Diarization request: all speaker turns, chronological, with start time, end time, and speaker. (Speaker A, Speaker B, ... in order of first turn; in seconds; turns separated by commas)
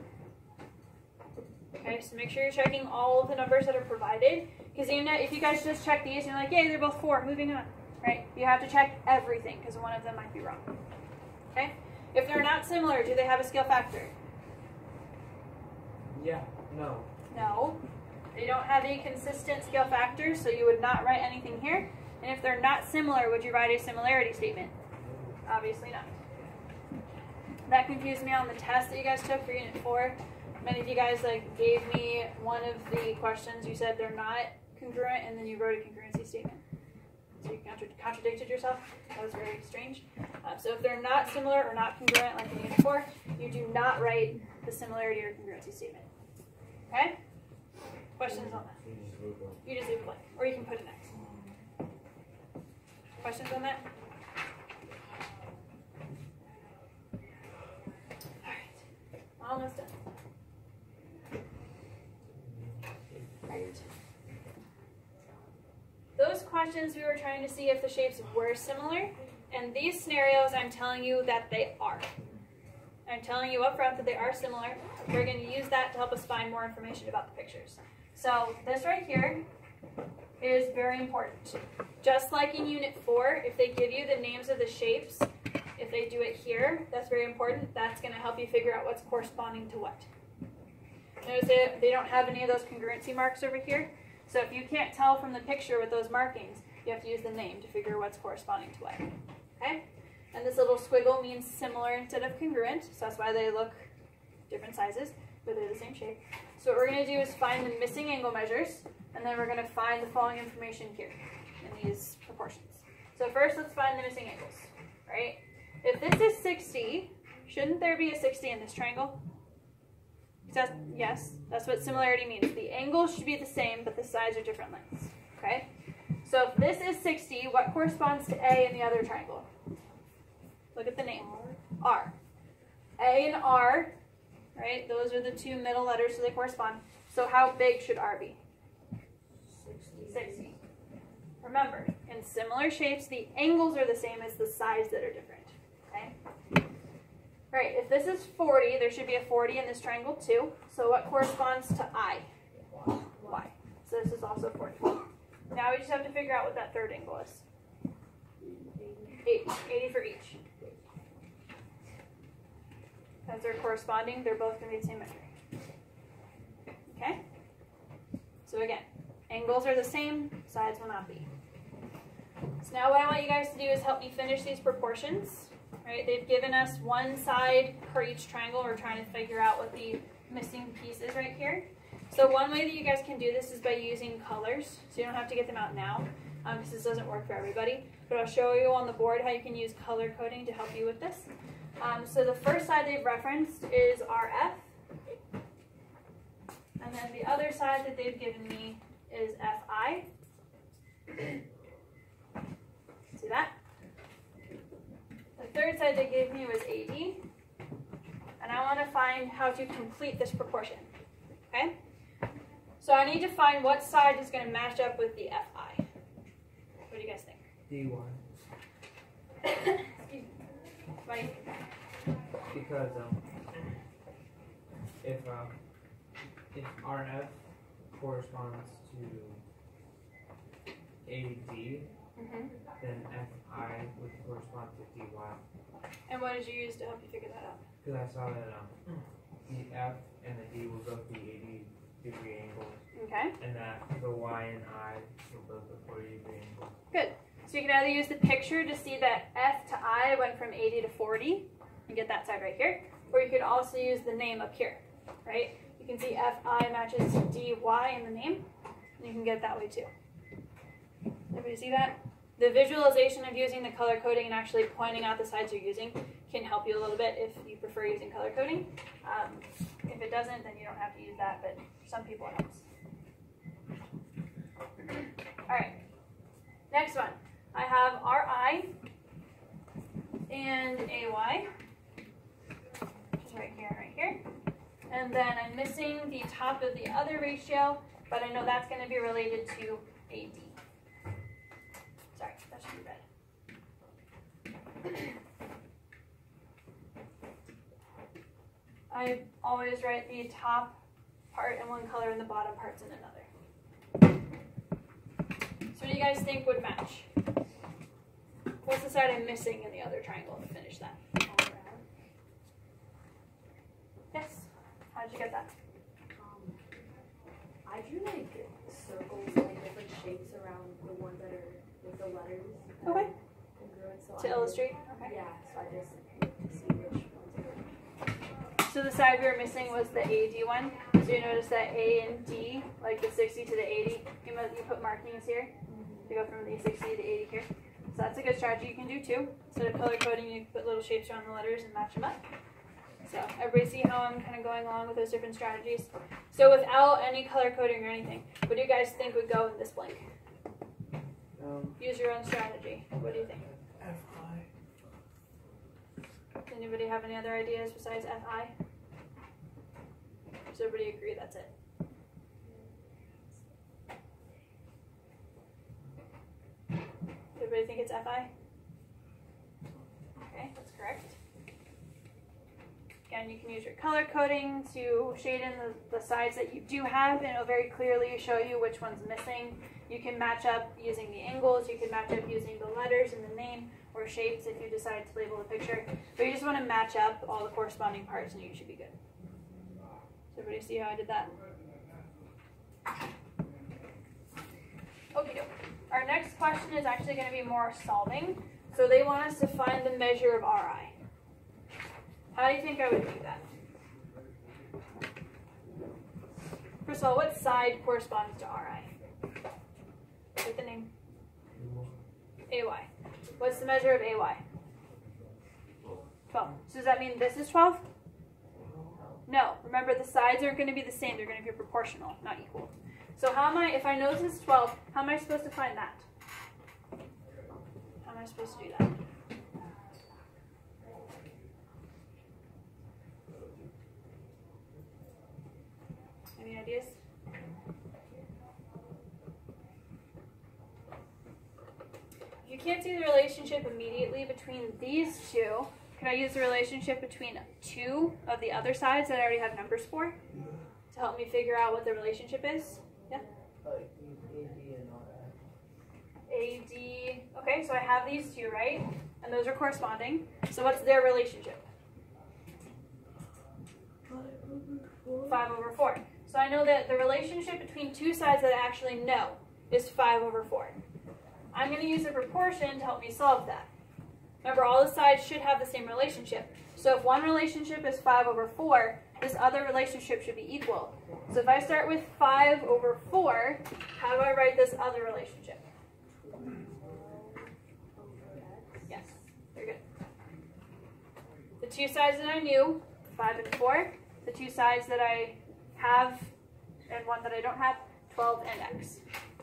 Speaker A: 1.8-10.7, Speaker A: 11.5-14.1, Speaker B: 16.1-17.1, Speaker A: 17.3-17.8, Speaker A: 18.3-24.7, Speaker B: 25.0-25.3, Speaker A: 25.4-26.2, Speaker A: 27.7-36.6, Speaker A: 37.4-46.1, Speaker A: 46.9-47.2, Speaker A: 48.2-48.8, Speaker C: 48.2-49.8, Speaker A: 49.6-51.1, Speaker D: 51.1-51.4, Speaker A: 53.2-53.9, Speaker A: 58.4-58.8, Speaker A: 59.4-60.0, Speaker B: 62.4-63.5, Speaker A: 63.5-63.8, Speaker A: 66.2-72.1, Speaker A: 73.1-79.4, Speaker A: 80.4-90.1, Speaker A: 91.2-99.1, Speaker A: 99.6-103.9, Speaker A: 104.5-119.2, Speaker A: 120.5-125.7, Speaker A: 126.2-129.5, Speaker A: 130.8-131.3, Speaker D: 131.1-131.6, Speaker A: 131.8-132.1, Speaker A: 133.0-133.9, Speaker A: 134.6-138.4, Speaker D: 139.5-140.6, Speaker A: 140.1-140.6, Speaker A: 141.4-146.1, Speaker A: 147.5-152.3, Speaker D: 153.1-153.4, Speaker A: 153.2-157.4, Speaker D: 158.7-159.3, Speaker A: 159.2-160.4, Speaker A: 163.3-165.3, Speaker A: 166.9-167.2, Speaker A: 168.5-171.3, Speaker A: 172.6-194.6, Speaker A: 196.8-200.1, Speaker A: 203.2-203.5, Speaker A: 205.4-207.2, Speaker A: 208.4-210.9, Speaker A: 211.5-211.8, Speaker A: 212.8-215.8, Speaker A: 216.9-217.4, Speaker B: 217.7-218.2, Speaker A: 219.4-220.4, Speaker A: 221.0-221.7, Speaker B: 222.5-223.2, Speaker B: 225.0-225.5, Speaker B: 226.5-227.4, Speaker B: 227.9-229.4, Speaker B: 231.0-231.9, Speaker A: 232.2-232.5, Speaker B: 232.8-235.4, Speaker A: 236.1-237.6, Speaker B: 237.8-238.9, Speaker B: 239.5-242.8, Speaker A: 242.9-243.3, Speaker B: 243.4-246.8, Speaker A: 246.9-258.5, Speaker A: 259.0-259.9, Speaker A: 261.3-272.6, Speaker A: 275.5-275.8, Speaker A: 276.7-278.7, Speaker A: 280.3-281.5, Speaker A: 283.2-284.2, Speaker A: 284.9-290.6, Speaker A: 292.1-293.0, Speaker A: 298.9-300.8, Speaker A: 301.3-303.3, Speaker A: 305.7-307.1, Speaker A: 308.6-311.0, Speaker D: 311.2-311.8, Speaker A: 314.1-315.5, Speaker D: 316.1-316.6, Speaker D: 317.6-327.7, Speaker A: 322.8-323.1, Speaker A: 324.2-325.1, Speaker A: 328.7-335.5, Speaker D: 335.7-336.2, Speaker A: 336.1-342.2, Speaker A: 343.1-350.0, Speaker B: 351.4-351.8, Speaker A: 351.8-353.4, Speaker B: 353.5-354.5, Speaker A: 356.5-358.5, Speaker A: 360.5-361.5, Speaker A: 367.4-368.3, Speaker A: 370.2-371.1, Speaker A: 373.1-388.9, Speaker A: 390.3-391.3, Speaker A: 395.1-400.9, Speaker A: 402.3-403.4, Speaker A: 406.9-408.9, Speaker A: 410.4-410.9, Speaker B: 411.6-412.0, Speaker A: 412.5-414.4, Speaker A: 416.3-417.8, Speaker B: 418.6-419.2, Speaker A: 419.3-426.1, Speaker A: 428.0-429.0, Speaker C: 433.3-433.7, Speaker A: 436.4-437.0, Speaker A: 442.4-450.2, Speaker A: 450.9-453.2, Speaker B: 453.6-455.4, Speaker A: 456.3-461.6, Speaker B: 464.1-465.1, Speaker A: 465.3-470.8, Speaker A: 471.5-473.7, Speaker A: 474.4-485.6, Speaker D: 486.3-489.0, Speaker A: 488.9-489.8, Speaker A: 491.6-496.3, Speaker A: 496.9-499.0